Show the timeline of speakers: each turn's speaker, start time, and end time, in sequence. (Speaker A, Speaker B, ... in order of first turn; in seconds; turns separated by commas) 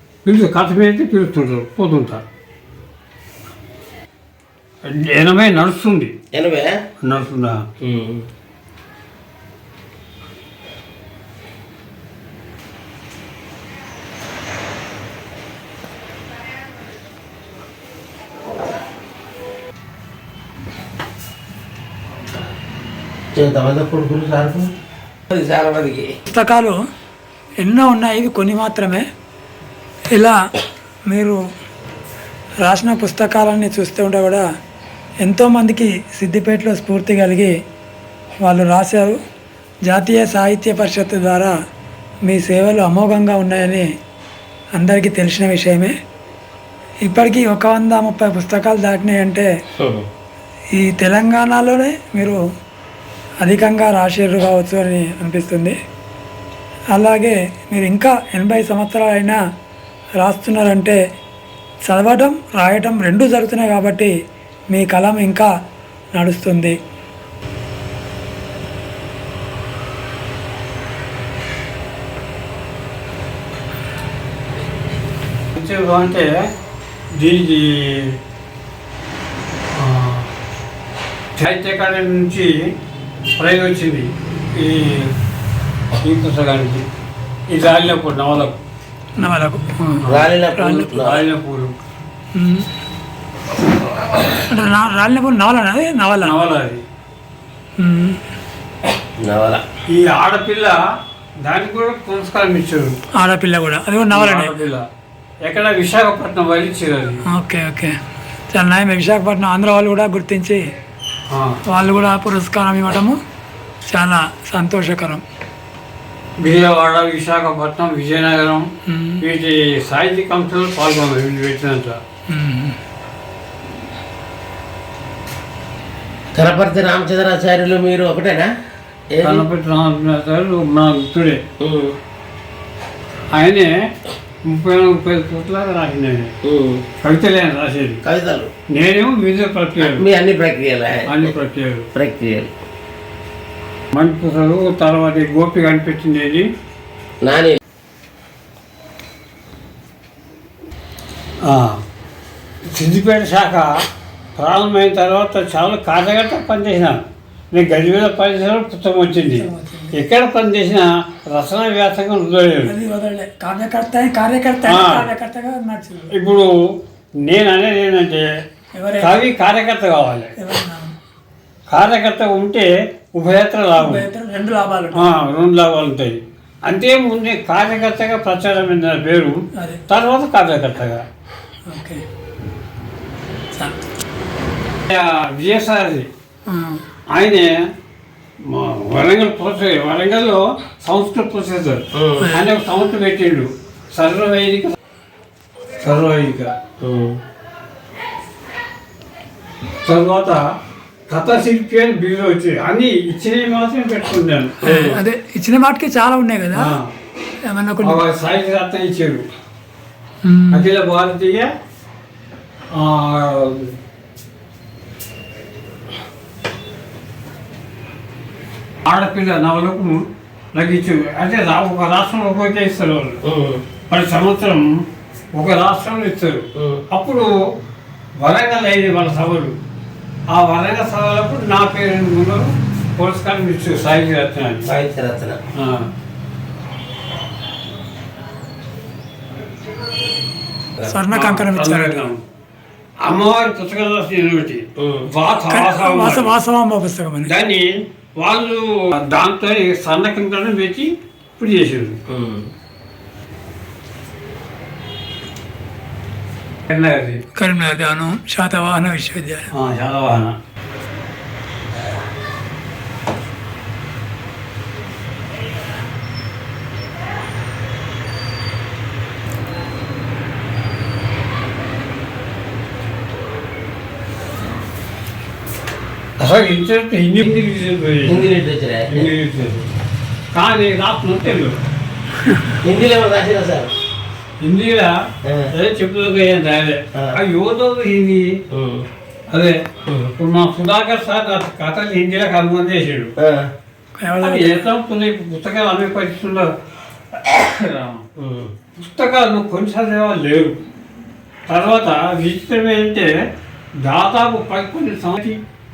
Speaker A: 0.2-2.2, Speaker A: 4.8-6.1, Speaker B: 6.3-6.7, Speaker A: 7.0-7.7, Speaker B: 7.8-8.3, Speaker B: 23.3-24.7, Speaker B: 25.3-26.1, Speaker C: 26.3-26.7, Speaker C: 27.6-29.0, Speaker C: 31.1-31.4, Speaker C: 32.6-34.4, Speaker C: 35.2-37.5, Speaker C: 38.4-39.2, Speaker C: 39.9-41.5, Speaker C: 42.3-43.9, Speaker C: 44.8-45.9, Speaker C: 47.0-49.5, Speaker B: 49.8-50.0, Speaker C: 50.7-52.4, Speaker C: 53.4-55.8, Speaker C: 56.9-59.4, Speaker C: 60.2-61.0, Speaker C: 61.9-64.1, Speaker C: 64.7-65.5, Speaker C: 66.1-66.7, Speaker A: 75.5-76.3, Speaker A: 77.2-78.1, Speaker A: 79.7-80.3, Speaker A: 81.4-82.5, Speaker A: 83.3-85.1, Speaker A: 86.0-86.8, Speaker A: 87.5-88.6, Speaker C: 89.2-90.9, Speaker A: 90.0-91.7, Speaker B: 90.1-91.2, Speaker C: 92.3-92.7, Speaker C: 94.3-96.3, Speaker A: 96.2-96.8, Speaker C: 97.8-98.2, Speaker B: 99.2-99.6, Speaker A: 99.9-100.8, Speaker A: 101.4-103.0, Speaker C: 103.2-104.5, Speaker A: 104.1-104.9, Speaker A: 105.5-107.2, Speaker C: 107.3-107.9, Speaker C: 108.5-110.6, Speaker A: 111.3-111.6, Speaker C: 111.7-113.2, Speaker C: 113.9-115.2, Speaker A: 116.4-118.7, Speaker C: 118.9-119.2, Speaker A: 119.2-122.0, Speaker C: 122.3-122.8, Speaker B: 126.3-128.5, Speaker B: 129.1-129.4, Speaker A: 129.2-131.4, Speaker B: 131.6-132.0, Speaker A: 133.3-133.7, Speaker A: 134.5-136.3, Speaker B: 136.4-136.8, Speaker A: 137.0-138.0, Speaker B: 138.0-138.5, Speaker A: 138.7-140.1, Speaker B: 139.8-141.3, Speaker A: 141.1-141.9, Speaker B: 141.9-142.5, Speaker A: 143.9-146.5, Speaker B: 147.2-147.6, Speaker A: 151.4-151.8, Speaker A: 152.7-153.8, Speaker A: 154.4-162.7, Speaker C: 159.3-159.9, Speaker C: 162.7-166.1, Speaker A: 164.6-165.1, Speaker A: 166.1-166.5, Speaker A: 167.2-168.2, Speaker C: 168.7-169.2, Speaker A: 169.0-170.3, Speaker C: 170.4-170.9, Speaker A: 171.7-174.1, Speaker C: 173.8-175.1, Speaker A: 174.9-181.0, Speaker C: 179.6-179.8, Speaker C: 181.7-182.0, Speaker A: 184.9-186.1, Speaker C: 186.5-186.8, Speaker A: 187.1-187.5, Speaker A: 188.4-194.7, Speaker B: 191.9-192.3, Speaker C: 192.2-192.4, Speaker A: 195.8-196.5, Speaker B: 196.8-197.2, Speaker A: 199.8-200.4, Speaker A: 201.1-205.0, Speaker C: 204.6-206.7, Speaker A: 206.5-206.9, Speaker C: 207.4-208.0, Speaker A: 207.8-209.2, Speaker C: 210.2-210.7, Speaker A: 210.5-211.5, Speaker A: 212.7-213.7, Speaker A: 218.8-220.0, Speaker A: 220.5-223.2, Speaker B: 223.2-223.6, Speaker A: 223.9-224.7, Speaker A: 225.3-227.3, Speaker B: 226.6-226.8, Speaker A: 228.2-229.5, Speaker A: 230.3-234.7, Speaker B: 234.6-235.4, Speaker A: 235.6-235.9, Speaker C: 240.9-242.1, Speaker A: 241.1-242.2, Speaker A: 243.0-246.3, Speaker B: 244.8-245.1, Speaker C: 245.4-247.3, Speaker A: 247.2-252.0, Speaker B: 252.1-252.5, Speaker A: 256.7-257.2, Speaker C: 257.4-259.5, Speaker A: 259.5-260.3, Speaker A: 276.2-278.3, Speaker B: 278.1-279.1, Speaker A: 278.9-279.7, Speaker A: 280.3-281.6, Speaker B: 282.6-283.7, Speaker A: 284.4-288.4, Speaker B: 285.2-285.5, Speaker B: 288.5-288.9, Speaker A: 289.3-289.6, Speaker B: 289.9-290.1, Speaker A: 290.1-293.1, Speaker B: 293.2-293.5, Speaker C: 294.0-294.6, Speaker A: 294.2-296.5, Speaker A: 297.1-298.0, Speaker B: 298.2-298.5, Speaker A: 298.8-300.6, Speaker A: 301.5-303.1, Speaker A: 303.8-305.4